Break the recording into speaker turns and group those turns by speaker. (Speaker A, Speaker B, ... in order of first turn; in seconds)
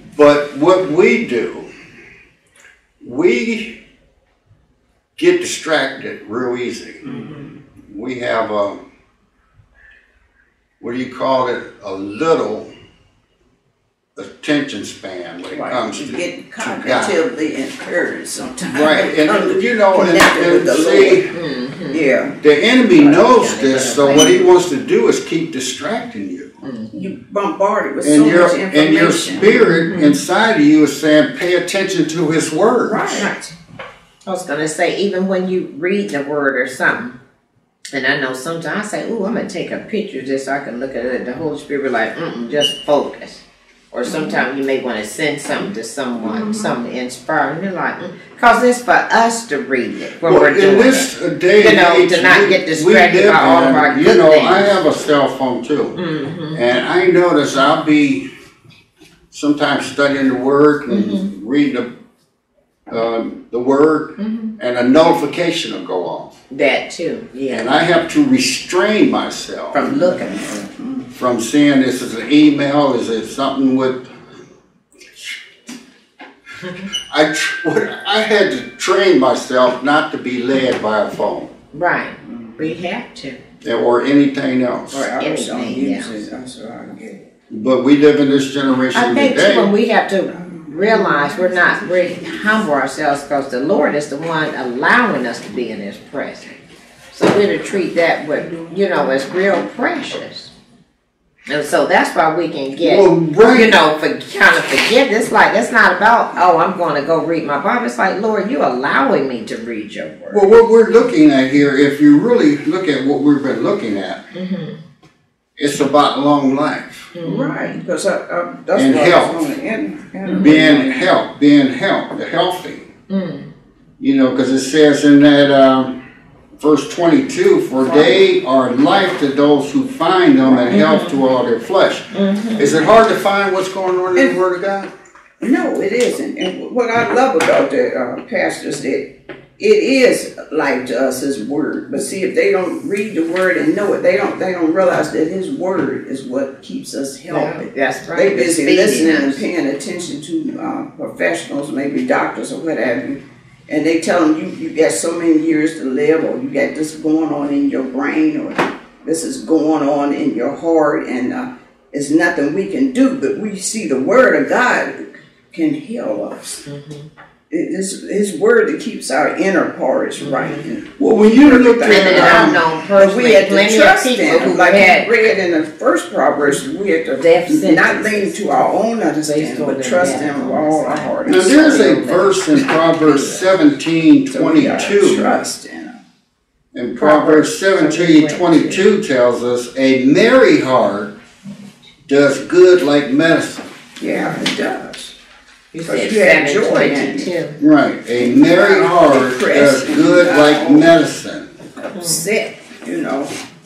Speaker A: 0.2-1.7, 3.0-3.8, 5.2-7.0, 7.9-8.8, 10.8-12.7, 14.2-17.2, 18.7-21.3, 22.4-26.6, 28.0-33.2, 50.2-56.0, 56.5-58.3, 59.3-61.9, 62.9-66.4, 67.5-69.8, 71.2-74.1, 77.1-81.5, 83.6-85.1, 87.5-89.7, 102.8-103.8, 110.3-114.2, 115.6-117.1, 118.8-119.4, 120.4-122.9, 124.0-126.0, 126.6-134.9, 171.0-172.6, 181.3-185.4, 186.7-191.1, 192.1-193.7, 197.6-201.5
Speaker B: 7.0-7.3, 15.5-21.2, 21.9-22.4, 26.9-29.5, 32.9-33.3, 44.1-44.4, 46.2-46.7, 69.8-71.1, 82.2-82.6, 84.9-87.2, 90.4-91.5, 117.2-121.1, 127.8-128.2, 130.4-130.8, 135.4-166.7, 167.5-182.0, 182.9-183.5, 184.3-186.0, 194.0-195.1, 195.9-197.3, 198.2-200.9, 201.8-203.3
Speaker C: 21.3-22.0, 23.0-24.4, 26.6-27.1, 29.5-30.2, 33.2-33.5, 34.3-37.2, 37.9-54.7, 56.0-56.6, 60.9-61.3, 64.2-64.5, 66.5-67.8, 69.7-70.4, 81.7-83.4, 85.2-86.1, 88.9-96.6, 97.1-100.5, 101.5-110.5, 114.3-114.8, 117.2-117.6, 120.2-120.6, 123.1-123.5, 130.7-131.2, 132.1-132.8, 147.3-149.4, 166.7-167.1, 170.2-170.6, 171.8-175.1, 177.2-178.3, 179.3-182.3, 187.0-188.8, 195.7-197.6, 202.0-202.2